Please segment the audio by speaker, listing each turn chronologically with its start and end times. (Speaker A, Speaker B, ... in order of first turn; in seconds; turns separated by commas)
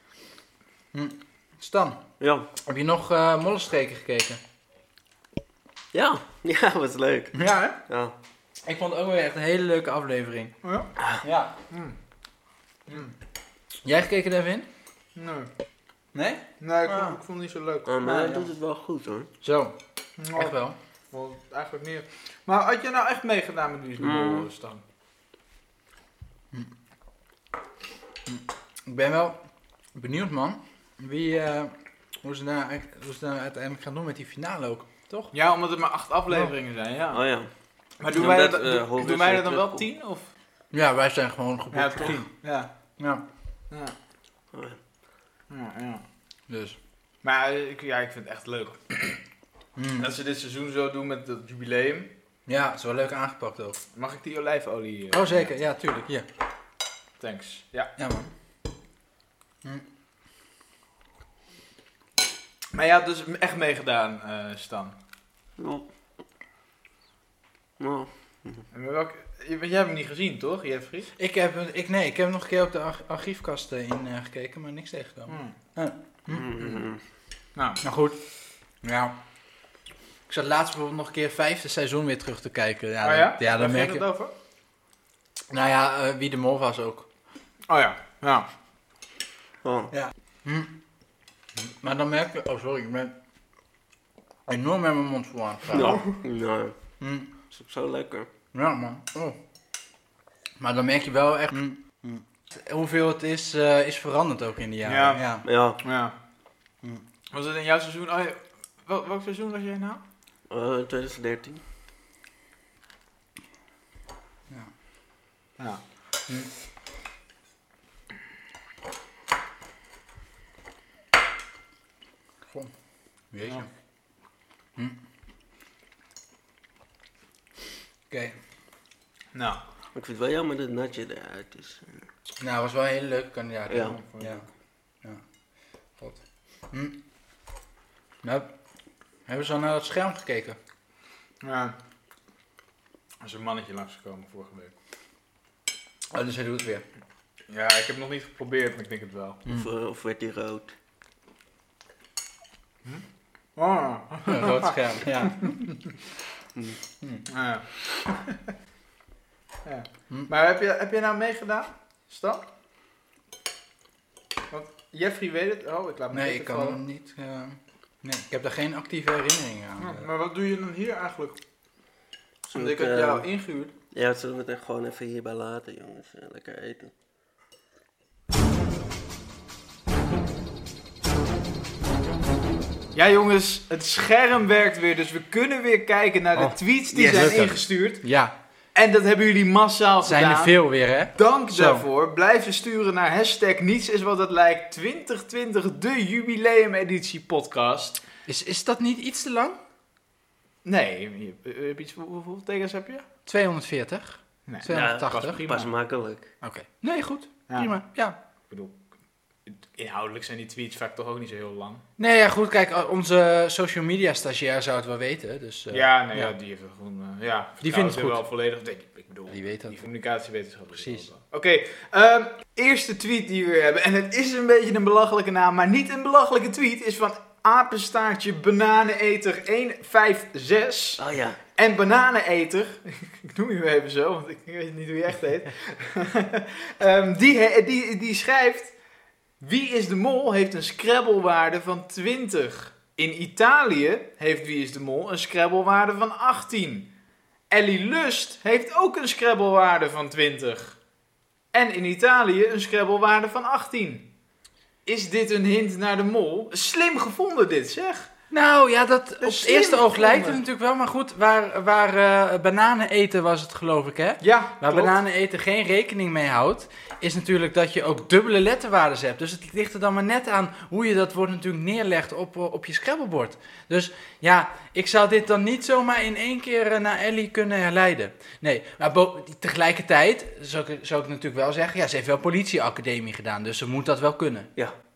Speaker A: 0.9-2.0, Speaker B: 2.2-2.5, Speaker A: 2.6-4.4, Speaker B: 5.9-8.2, Speaker A: 7.3-7.8, Speaker A: 8.7-10.5, Speaker C: 10.6-10.9, Speaker B: 11.0-11.2, Speaker A: 11.2-11.5, Speaker C: 11.7-12.0, Speaker C: 12.9-13.1, Speaker A: 13.8-14.7, Speaker C: 15.2-15.5, Speaker A: 16.1-17.2, Speaker C: 16.6-18.5, Speaker B: 17.9-19.3, Speaker A: 19.4-19.8, Speaker C: 20.2-20.6, Speaker A: 20.4-20.8, Speaker C: 21.1-24.8, Speaker B: 24.0-24.5, Speaker A: 28.3-29.4, Speaker A: 29.9-35.3, Speaker C: 35.3-37.2, Speaker A: 36.3-36.5, Speaker B: 37.1-37.5, Speaker C: 38.0-40.3, Speaker B: 38.1-39.9, Speaker A: 40.7-42.3, Speaker C: 41.7-42.7, Speaker A: 43.0-43.2, Speaker B: 44.5-44.8, Speaker C: 45.5-46.0, Speaker A: 46.5-46.8, Speaker C: 47.2-49.2, Speaker A: 49.8-50.1, Speaker C: 50.0-52.1, Speaker A: 52.5-53.8, Speaker C: 53.9-55.5, Speaker A: 55.1-56.2, Speaker C: 57.2-57.9, Speaker A: 58.0-58.3, Speaker C: 62.7-65.0, Speaker B: 65.6-65.9, Speaker B: 67.8-68.6, Speaker C: 68.7-71.1, Speaker A: 71.2-76.5, Speaker C: 75.3-75.5, Speaker B: 76.3-77.0, Speaker C: 77.6-77.8, Speaker A: 77.8-78.2, Speaker A: 78.8-79.2, Speaker A: 80.3-84.0, Speaker C: 83.0-84.3, Speaker A: 85.5-87.1, Speaker C: 87.7-88.5, Speaker B: 89.6-89.9, Speaker A: 89.9-90.7, Speaker A: 91.6-93.2, Speaker A: 94.5-96.0, Speaker B: 95.7-96.7, Speaker A: 97.0-97.4, Speaker B: 97.5-98.3, Speaker A: 98.5-99.4, Speaker A: 100.6-105.5, Speaker C: 104.8-105.3, Speaker B: 105.4-105.8, Speaker C: 105.8-106.1, Speaker C: 107.3-110.0, Speaker B: 110.5-111.6, Speaker A: 123.3-123.7, Speaker A: 128.1-128.3, Speaker C: 129.3-129.6, Speaker B: 129.9-132.0, Speaker A: 132.4-134.4, Speaker B: 133.7-134.0, Speaker C: 133.8-134.5, Speaker A: 136.0-137.0, Speaker A: 138.2-138.5, Speaker A: 139.3-140.6, Speaker C: 141.4-141.8, Speaker C: 143.2-144.7, Speaker A: 146.1-146.8, Speaker C: 147.5-149.4, Speaker B: 149.5-150.7, Speaker C: 153.6-155.7, Speaker A: 154.3-155.6, Speaker C: 157.3-158.4, Speaker C: 159.7-162.5, Speaker C: 164.5-166.8, Speaker A: 166.1-170.1, Speaker C: 169.8-171.4, Speaker B: 172.4-173.3, Speaker C: 172.5-173.7, Speaker B: 173.9-176.9, Speaker C: 182.9-188.1, Speaker A: 186.3-188.3, Speaker B: 186.9-187.6, Speaker C: 188.8-190.6, Speaker A: 190.0-191.8, Speaker C: 191.1-198.0, Speaker A: 198.3-199.6, Speaker C: 200.7-203.1, Speaker A: 203.3-205.4, Speaker C: 204.5-205.7, Speaker B: 204.7-206.3, Speaker A: 206.4-208.2, Speaker C: 207.5-207.8, Speaker C: 208.5-208.8, Speaker C: 209.5-211.8, Speaker A: 212.0-216.3, Speaker C: 215.7-231.0, Speaker A: 217.6-218.2, Speaker A: 219.3-219.8, Speaker A: 220.7-221.1, Speaker B: 231.0-231.4, Speaker C: 231.6-238.8, Speaker C: 239.4-246.9, Speaker C: 247.5-250.8, Speaker C: 251.5-254.1, Speaker C: 254.9-258.1, Speaker A: 258.3-284.5, Speaker C: 259.2-260.4, Speaker C: 264.2-265.0